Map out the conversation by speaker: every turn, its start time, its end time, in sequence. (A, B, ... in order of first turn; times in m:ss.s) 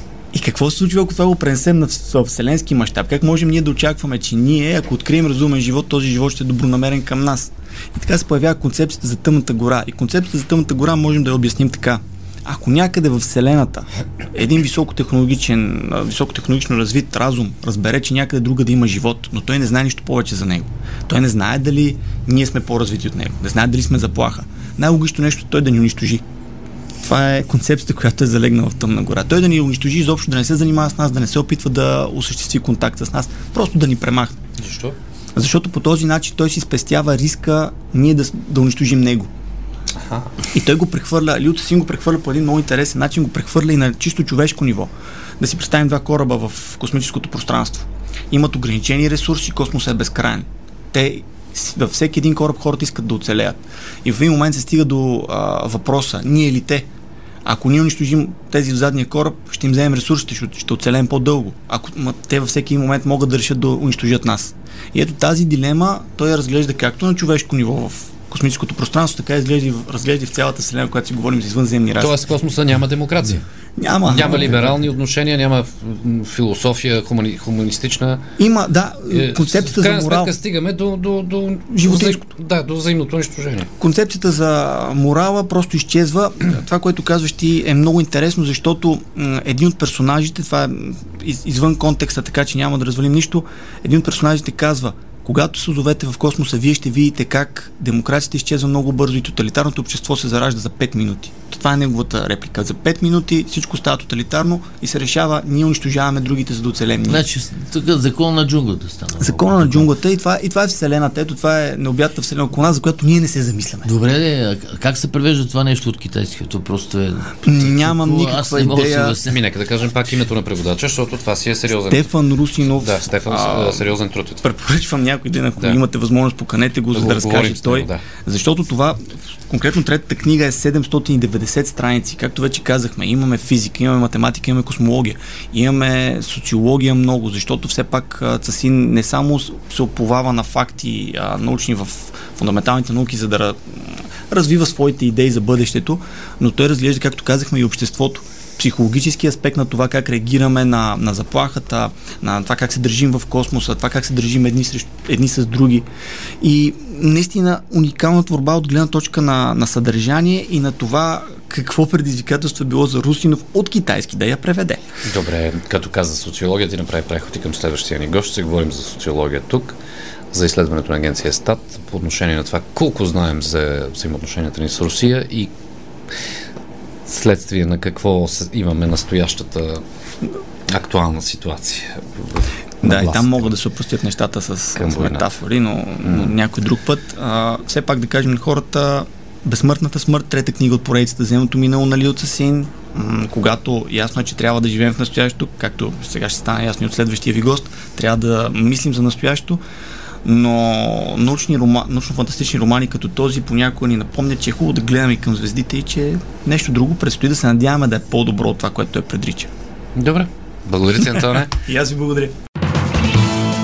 0:00.3-0:26.2 A
0:27.0-0:34.4 A
0:34.6-0:35.0 B
0:35.3-0:39.3 A
0:40.0-0:40.3 B
0:40.5-0:56.9 A
0:57.4-1:12.2 A
1:12.0-1:13.4 B
1:13.8-1:14.6 A
1:14.1-1:18.2 B
1:18.4-1:20.3 A
1:19.1-1:23.7 B
1:21.7-1:22.2 A
1:23.8-1:47.2 A
1:47.0-1:49.9 C
1:49.2-1:53.9 A
1:53.8-1:59.4 C
1:57.4-1:59.2 A
1:59.3-2:02.1 B
2:01.8-2:35.9 A
2:02.7-2:04.4 B
2:06.9-2:08.0 B
2:36.4-2:44.8 A
2:45.0-2:49.8 B
2:50.3-2:55.5 B
2:57.0-2:59.8 B
3:00.7-3:03.5 B
3:02.8-3:19.6 A
3:04.8-3:05.3 B
3:06.0-3:06.3 B
3:20.2-3:29.5 A
3:30.0-3:31.5 B
3:31.0-3:32.3 A